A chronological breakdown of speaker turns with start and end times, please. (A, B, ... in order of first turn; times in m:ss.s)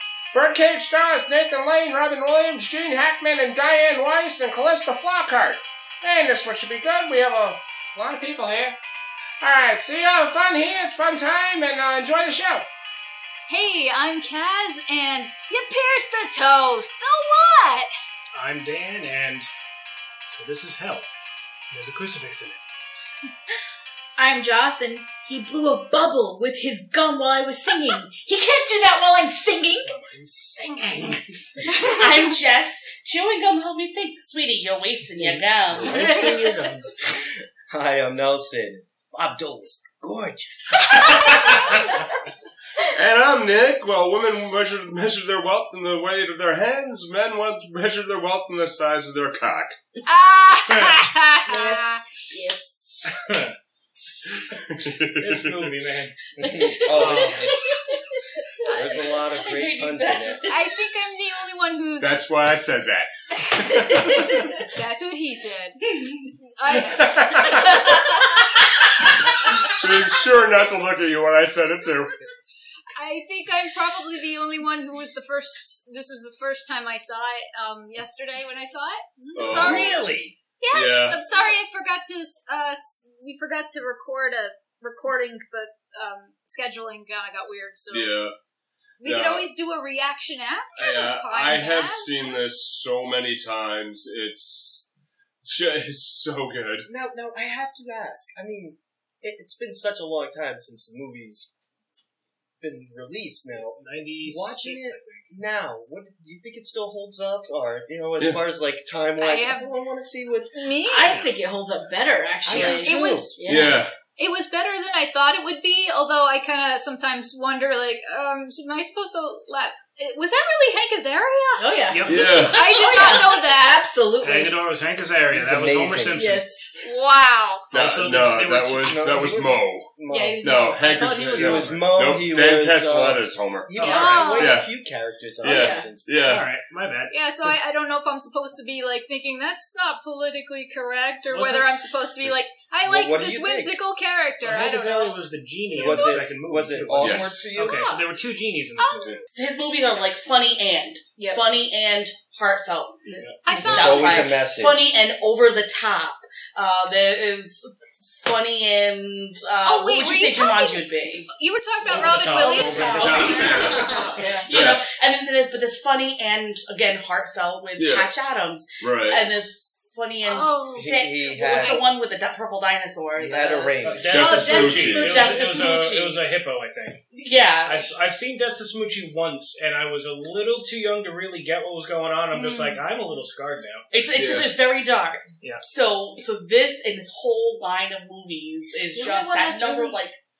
0:00.3-0:08.8 A
0:09.4-0:12.7 A
0:13.5-0:17.9 B
0:18.3-0:19.5 C
0:20.3-0:21.1 C
0:21.7-0:22.6 C
0:24.2-0:29.9 D
0:29.9-0:31.2 C
0:31.6-0:36.3 E
0:35.1-0:36.9 C
0:35.7-0:36.6 F
0:37.7-0:41.7 F
0:41.0-0:41.8 B
0:41.2-0:41.7 C
0:42.9-0:49.8 G
0:50.0-0:52.1 B
0:50.6-0:51.0 C
0:51.4-0:53.0 D
0:53.0-0:53.6 C
0:54.4-0:55.8 G
0:55.2-0:56.2 C
0:56.4-0:57.6 F
0:56.9-0:57.4 C
0:56.9-0:57.6 E
0:58.6-1:00.6 E
0:58.7-1:00.4 F
1:00.5-1:02.3 B
1:02.0-1:03.1 G
1:03.5-1:10.0 B
1:07.0-1:07.7 C
1:09.7-1:12.2 G
1:12.9-1:28.2 B
1:19.3-1:20.1 G
1:19.4-1:20.3 F
1:20.7-1:21.2 G
1:27.9-1:28.3 G
1:29.0-1:32.4 B
1:29.0-1:29.5 G
1:30.8-1:34.8 G
1:35.4-1:36.9 G
1:36.8-1:41.5 F
1:42.6-1:50.7 F
1:43.7-1:45.3 C
1:49.2-1:49.7 B
1:50.5-1:51.2 B
1:50.8-1:53.8 D
1:52.4-1:53.4 F
1:52.5-1:52.9 C
1:52.7-1:53.4 B
1:53.4-1:53.9 G
1:54.1-2:01.8 B
2:01.6-2:04.6 D
2:01.9-2:02.4 C
2:02.1-2:02.6 G
2:02.4-2:03.8 B
2:04.2-2:06.6 C
2:05.3-2:06.4 F
2:06.1-2:06.7 D
2:06.8-2:07.7 B
2:07.7-2:09.9 G
2:07.7-2:09.2 C
2:08.8-2:10.8 F
2:10.1-2:11.1 D
2:10.4-2:14.7 G
2:10.9-2:11.7 E
2:11.0-2:11.6 C
2:11.3-2:16.2 F
2:13.7-2:14.2 C
2:13.8-2:14.6 B
2:13.9-2:14.4 D
2:15.4-2:16.5 G
2:15.4-2:15.9 D
2:16.2-2:17.3 C
2:17.1-2:26.2 B
2:21.3-2:21.7 C
2:22.8-2:23.8 F
2:24.4-2:29.1 C
2:25.8-2:27.9 F
2:27.0-2:27.5 G
2:27.6-2:28.0 B
2:28.8-2:29.3 B
2:29.3-2:41.3 E
2:33.4-2:34.3 B
2:33.6-2:34.9 F
2:39.6-2:44.0 B
2:41.8-2:44.2 C
2:41.9-2:44.4 D
2:42.9-2:53.8 E
2:43.0-2:43.9 G
2:44.5-2:44.8 G
2:47.8-2:48.1 G
2:48.8-2:49.2 G
2:50.2-2:51.8 B
2:50.8-2:51.8 F
2:53.2-2:54.3 F
2:53.8-2:57.0 C
2:54.1-2:55.3 G
2:54.1-2:55.7 D
2:55.0-2:56.2 E
2:57.1-2:57.9 E
2:57.6-3:03.8 C
3:02.3-3:02.8 B
3:03.9-3:10.2 E
3:04.1-3:04.5 G
3:08.9-3:10.0 D